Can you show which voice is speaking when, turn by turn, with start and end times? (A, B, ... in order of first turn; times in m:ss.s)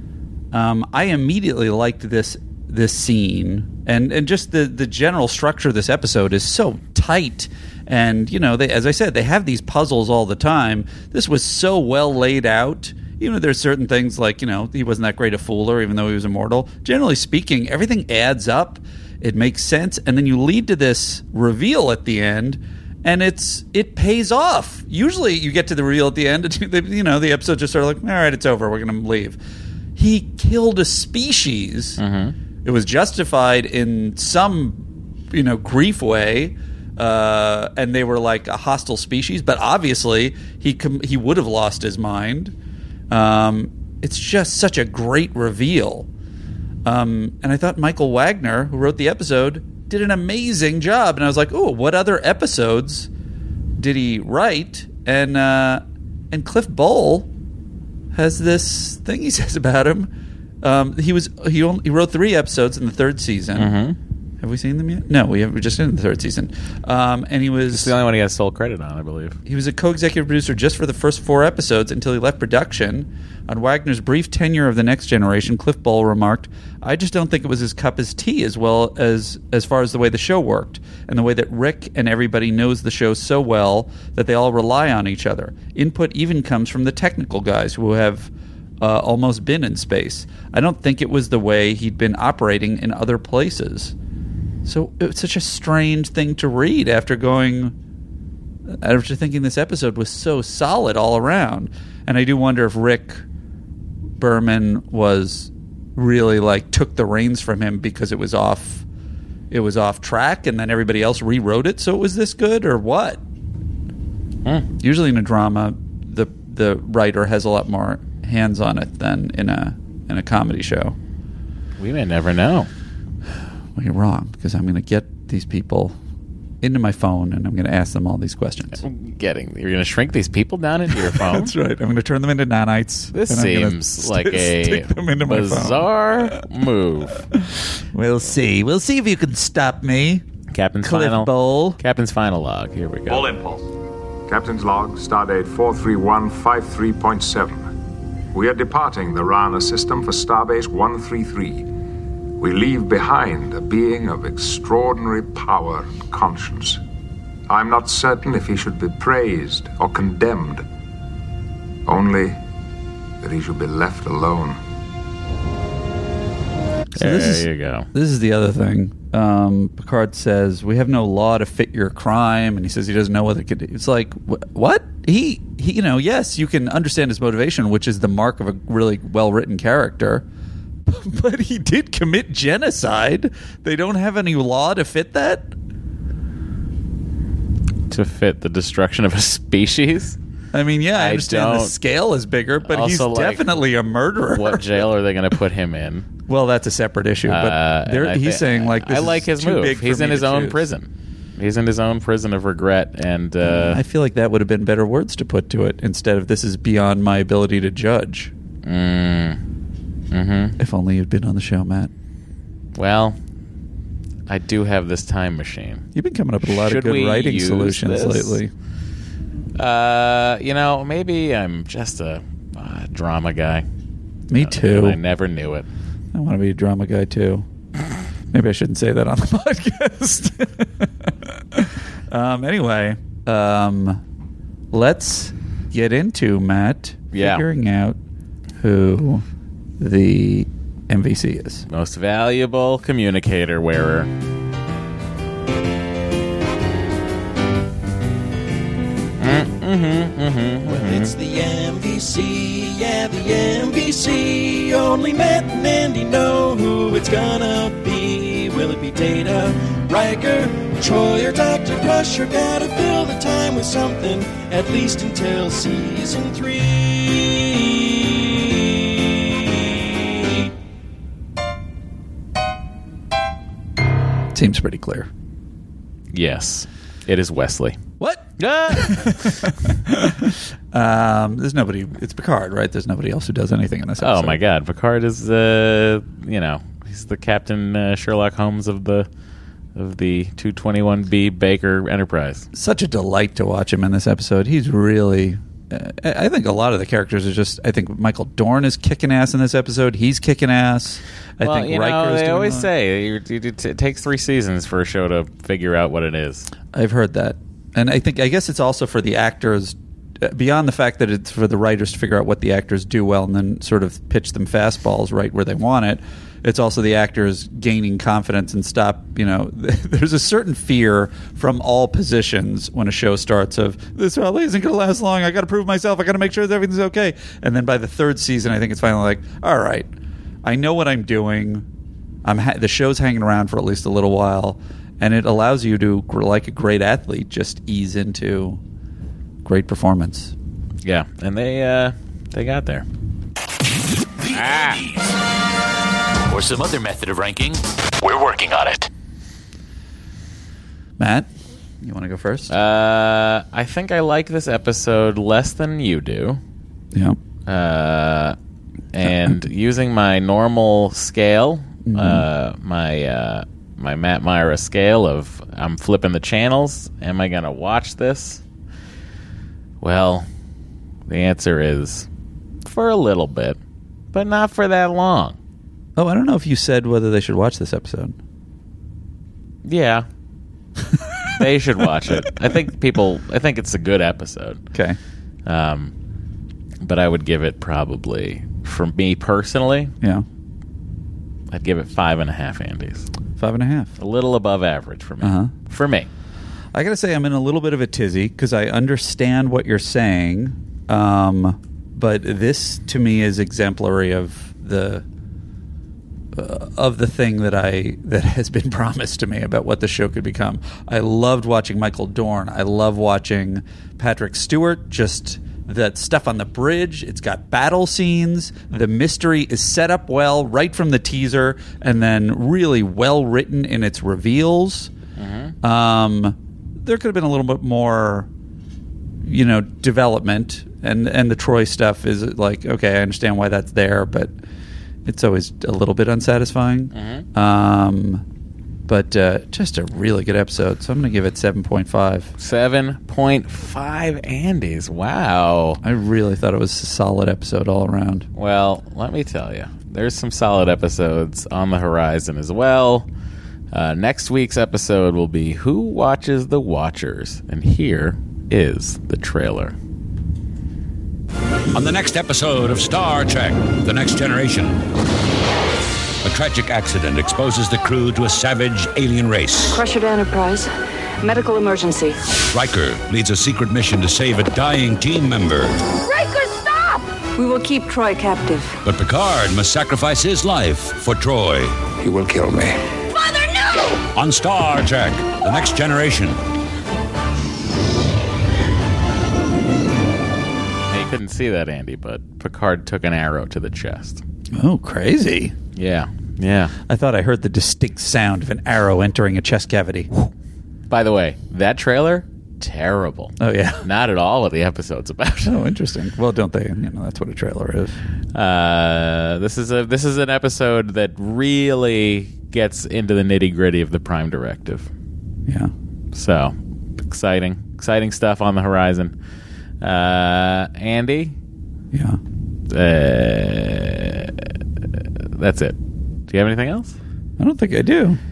0:00.5-0:29.4 A
0:30.0-0:32.0 A
0:32.0-0:32.3 B
0:32.6-0:42.5 A
0:43.1-0:46.1 A
0:46.8-0:53.1 A
0:53.8-0:57.3 A
0:58.1-1:00.1 A
1:00.6-1:03.8 A
1:03.6-1:04.0 B
1:04.4-1:07.9 A
1:07.7-1:09.4 B
1:09.4-1:33.9 A
1:34.6-1:37.7 A
1:38.7-1:43.2 A
1:44.2-1:48.8 A
1:49.5-1:53.2 A
1:54.8-2:01.0 A
2:01.8-2:02.7 B
2:03.8-2:06.0 A
2:06.6-2:08.8 A
2:08.8-2:11.5 B
2:10.9-2:16.4 A
2:13.1-2:17.3 B
2:17.3-2:20.2 A
2:20.5-2:23.3 B
2:20.8-2:21.8 A
2:23.1-2:23.6 C
2:24.3-2:27.6 C
2:28.3-2:31.6 C
2:32.4-2:36.8 C
2:37.5-2:40.6 C
2:41.8-2:42.4 C
2:43.2-2:44.6 C
2:47.0-3:00.2 A
2:47.0-2:47.9 B
3:00.8-3:05.5 A
3:07.9-3:10.2 B
3:10.5-3:14.8 A
3:10.9-3:11.8 B
3:12.6-3:13.6 B
3:14.3-3:16.1 B
3:16.3-3:20.6 A
3:17.2-3:23.8 B
3:23.4-3:28.3 A
3:28.6-3:29.4 B
3:30.1-3:30.6 B
3:30.6-3:31.9 A
3:32.7-3:33.2 B
3:34.3-3:35.9 B
3:35.9-3:38.5 A
3:36.4-3:38.4 B
3:39.6-3:43.6 B
3:44.3-3:45.0 A
3:44.4-3:45.7 B
3:46.1-3:47.4 A
3:48.3-3:54.0 A
3:54.7-3:58.0 A
3:57.1-3:57.4 B
3:58.6-3:59.2 A
3:59.8-4:01.6 A
4:01.7-4:04.1 B
4:09.2-4:11.1 B
4:10.6-4:27.9 D
4:34.3-4:35.1 A
4:36.1-4:37.8 B
4:38.0-4:44.4 A
4:38.4-4:39.4 B
4:44.0-4:49.1 B
4:49.8-4:52.4 B
4:52.5-5:02.7 A
5:01.4-5:06.5 B
5:06.7-5:29.9 A
5:30.4-5:31.6 A
5:32.2-5:38.6 A
5:39.4-5:40.3 A
5:40.8-5:42.8 B
5:44.3-5:44.9 B
5:46.3-5:48.9 E
5:51.0-5:51.3 A
5:51.8-5:52.5 A
5:52.5-5:56.4 B
5:57.4-5:58.4 B
5:58.9-6:08.4 B
5:59.0-5:59.4 A
6:01.8-6:02.2 A
6:09.8-6:10.3 B
6:11.1-6:12.1 B
6:12.6-6:13.6 B
6:14.1-6:15.4 B
6:16.0-6:18.2 A
6:19.6-6:20.1 B
6:21.4-6:24.6 B
6:25.4-6:25.9 B
6:26.8-6:29.9 B
6:31.5-6:33.1 B
6:33.4-6:33.9 A
6:34.0-6:36.1 B
6:35.2-6:35.5 A
6:36.7-6:45.0 A
6:46.3-7:04.9 A
7:05.2-7:05.5 B
7:05.6-7:08.3 A
7:09.2-7:14.4 A
7:15.0-7:18.2 A
7:16.9-7:17.2 B
7:18.9-7:22.3 A
7:22.4-7:25.8 B
7:25.8-7:28.3 A
7:28.3-7:33.1 B
7:33.7-7:39.7 B
7:41.7-7:44.8 F
7:46.2-7:49.8 F
7:49.7-7:52.2 G
7:52.5-7:55.8 F
7:56.1-7:58.8 G
7:58.8-8:01.8 F
8:02.0-8:02.8 C
8:04.1-8:06.4 F
8:10.9-8:14.2 B
8:14.5-8:15.5 A
8:15.8-8:16.7 B
8:16.9-8:20.1 A
8:20.9-8:25.6 B
8:23.4-8:23.8 A
8:25.4-8:28.0 A
8:28.3-8:34.9 B
8:35.4-8:35.7 A
8:36.1-8:39.1 B
8:39.8-8:41.3 B
8:41.9-8:42.2 A
8:42.7-8:44.5 B
8:45.3-8:45.8 B
8:46.3-8:47.0 B
8:47.4-8:48.2 A